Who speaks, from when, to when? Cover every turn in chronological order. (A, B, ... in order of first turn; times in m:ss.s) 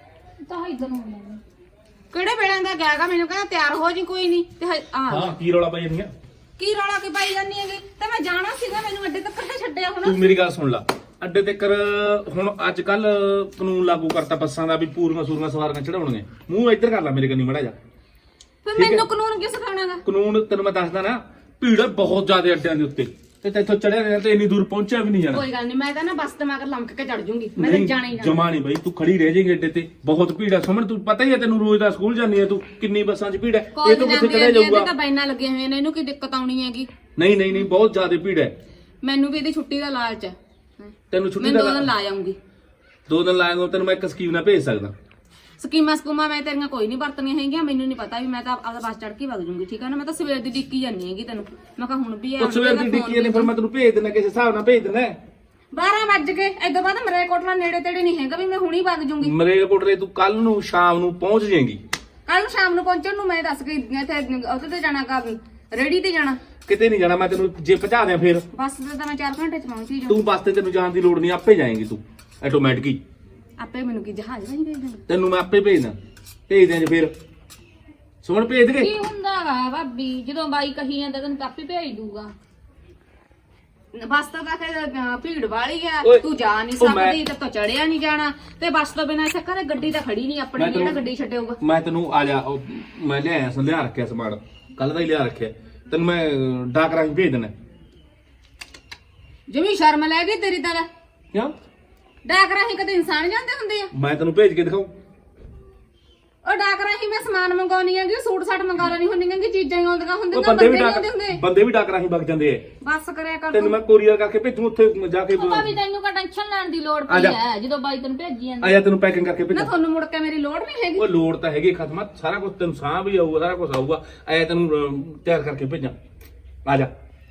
0:00.4-0:01.4 A
0:02.1-0:05.3 B
0:05.1-0:06.1 C
0:06.6-0:10.2 B
0:10.0-0:17.8 C
0:18.6-0:20.0 B
0:18.8-0:19.0 C
0:20.0-0:25.4 C
0:25.3-0:28.4 B
0:27.6-0:34.9 C
0:33.8-0:36.9 B
0:37.2-0:38.5 C
0:39.0-0:42.4 B
0:41.1-0:41.9 C
0:43.1-0:44.9 C
0:45.6-0:53.5 B
0:52.4-0:55.2 C
0:55.7-0:59.3 B
0:59.2-1:01.8 C
1:02.3-1:06.4 B
1:06.7-1:08.4 C
1:08.5-1:10.2 B
1:10.1-1:13.0 C
1:13.6-1:15.0 B
1:15.1-1:16.0 C
1:16.5-1:17.1 C
1:18.2-1:18.9 C
1:18.8-1:20.9 B
1:19.0-1:22.3 A
1:23.9-1:31.6 B
1:26.8-1:27.2 C
1:30.6-1:31.0 C
1:31.6-1:37.5 C
1:39.5-1:40.9 B
1:42.2-1:43.9 B
1:43.9-1:44.9 C
1:46.4-1:51.4 B
1:50.3-1:52.6 C
1:52.8-1:53.8 B
1:53.5-1:55.7 C
1:55.4-1:58.8 A
1:57.1-1:57.4 C
1:58.6-1:59.7 C
1:59.5-2:01.1 B
2:01.0-2:06.0 C
2:06.6-2:06.9 C